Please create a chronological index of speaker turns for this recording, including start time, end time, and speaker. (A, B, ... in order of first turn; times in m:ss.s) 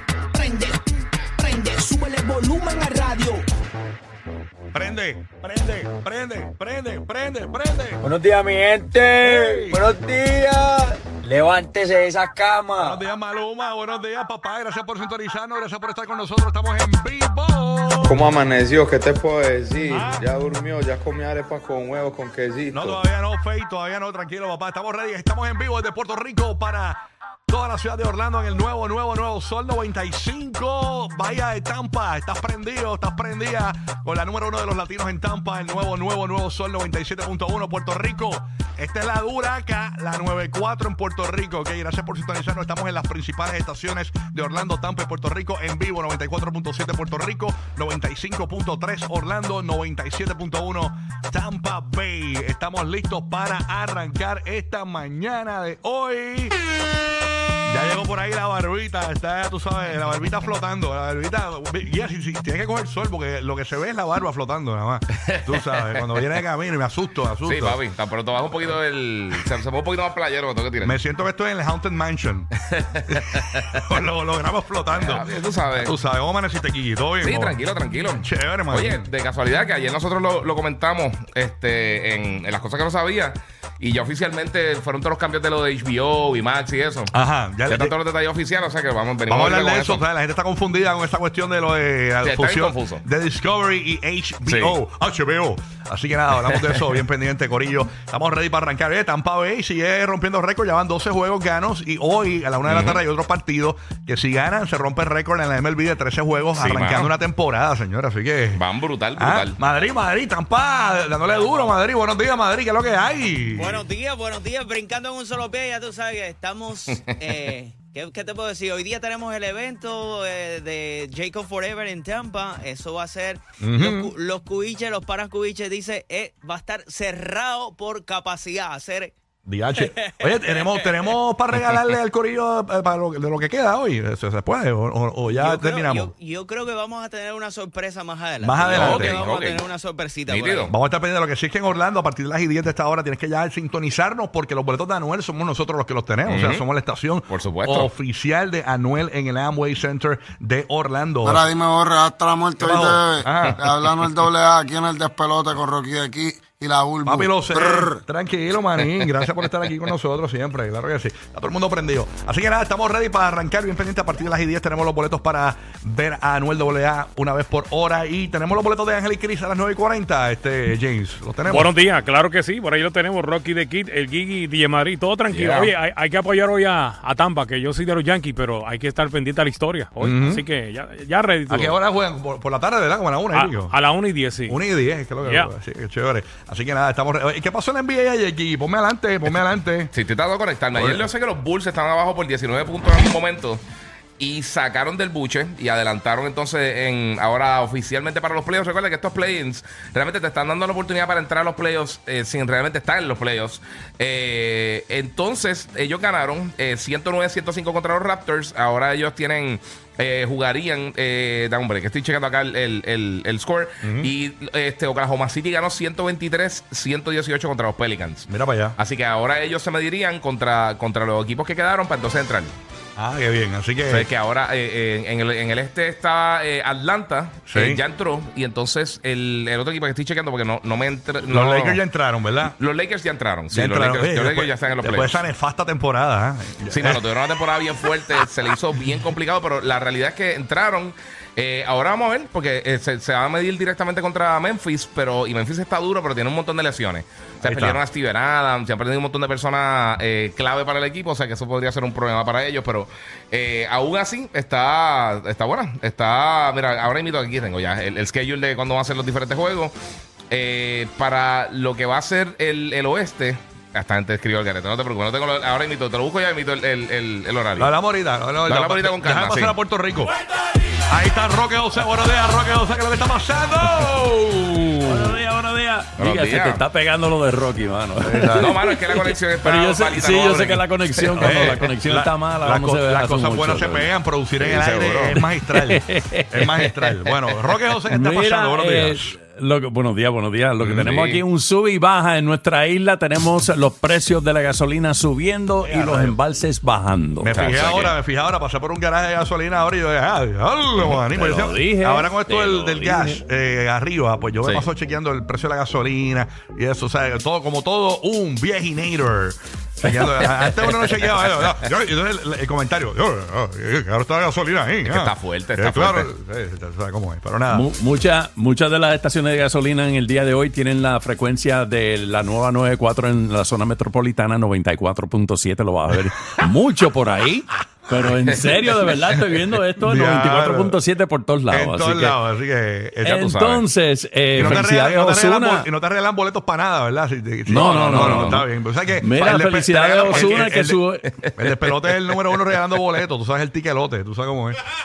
0:00.3-0:03.5 A
0:04.7-0:08.0 B
0:08.0-0:13.0 C
0:09.2-0:09.8 B
0:12.8-0:18.3 B
0:18.0-0:23.0 D
0:19.9-0:20.3 B
0:22.7-0:56.6 B
0:57.7-1:07.8 B
1:05.3-1:06.3 E
1:07.4-1:11.0 E
1:10.8-1:12.5 B
1:12.9-1:13.8 E
1:13.1-1:15.2 B
1:14.9-1:15.9 E
1:15.8-1:17.6 B
1:17.2-1:27.1 E
1:18.2-1:19.1 B
1:27.1-1:27.9 B
1:27.7-1:30.0 E
1:29.3-1:48.6 B
1:32.2-1:33.0 E
1:34.5-1:34.8 E
1:36.5-1:36.8 E
1:42.7-1:43.0 E
1:46.6-1:47.1 E
1:48.6-1:49.6 E
1:49.2-1:53.8 B
1:53.6-2:09.1 F
2:03.6-2:04.1 B
2:09.5-2:16.1 B
2:09.8-2:11.0 F
2:15.3-2:20.7 F
2:18.4-2:19.2 B
2:18.8-2:19.6 E
2:20.3-2:20.7 E
2:20.7-2:31.5 B
2:26.3-2:26.6 E
2:27.3-2:27.9 E
2:31.2-2:38.0 G
2:32.6-2:33.6 B
2:37.0-2:51.7 B
2:51.5-3:01.8 H
2:55.3-2:55.7 E
3:00.0-3:00.4 B
3:01.5-3:03.8 B
3:03.3-3:04.6 H
3:04.5-3:09.9 B
3:05.2-3:05.5 H
3:09.9-3:13.6 E
3:10.7-3:11.1 B
3:14.2-3:42.5 E
3:33.8-3:34.1 B
3:38.3-3:38.8 B
3:43.0-3:44.1 B
3:43.9-3:51.8 E
3:47.5-3:47.8 B
3:51.3-3:52.6 B
3:52.5-3:55.2 E
3:53.5-3:57.0 B
3:56.7-4:19.7 E
4:07.4-4:07.8 B
4:20.3-4:27.7 E
4:27.6-4:30.1 B
4:28.5-4:29.6 E
4:30.9-4:35.2 B
4:34.8-4:43.9 I
4:36.0-4:36.6 E
4:38.0-4:38.6 B
4:38.4-4:41.6 E
4:41.2-4:49.1 B
4:44.4-4:45.0 E
4:44.9-4:46.7 I
4:47.9-4:57.4 I
4:50.6-4:51.2 E
4:55.6-4:56.2 B
4:57.2-5:17.7 B
4:57.3-4:58.0 E
5:00.9-5:03.2 I
5:14.8-5:16.1 E
5:17.5-5:32.2 I
5:29.8-5:30.8 B
5:31.5-5:33.2 B
5:33.0-5:35.7 I
5:33.2-5:33.6 E
5:34.4-5:40.8 B
5:37.5-5:38.5 I
5:37.6-5:38.4 E
5:39.0-5:41.1 I
5:40.0-5:40.4 E
5:41.4-5:44.6 B
5:41.4-5:42.4 E